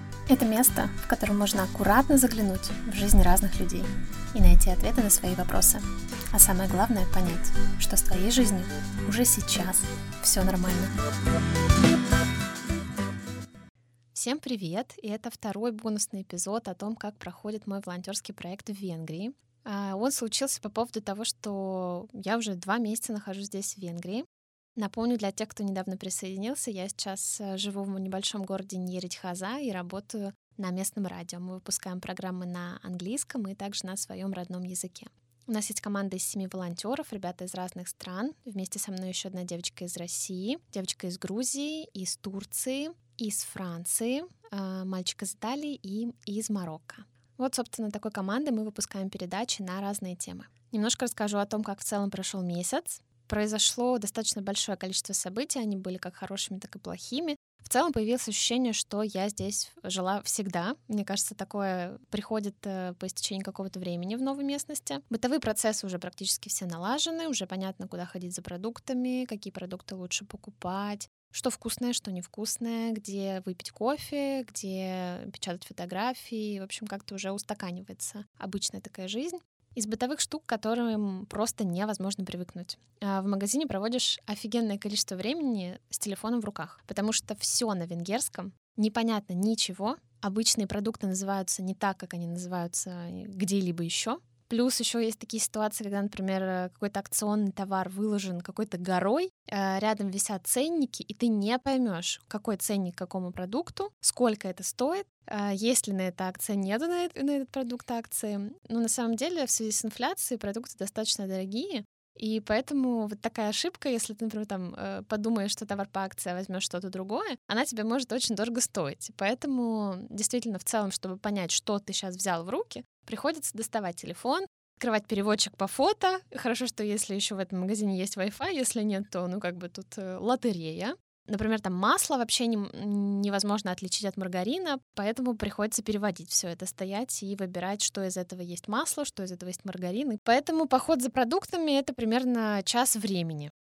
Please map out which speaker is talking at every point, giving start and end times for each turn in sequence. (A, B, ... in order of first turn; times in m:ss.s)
0:00.3-0:10.9 A
0:14.1-2:23.5 A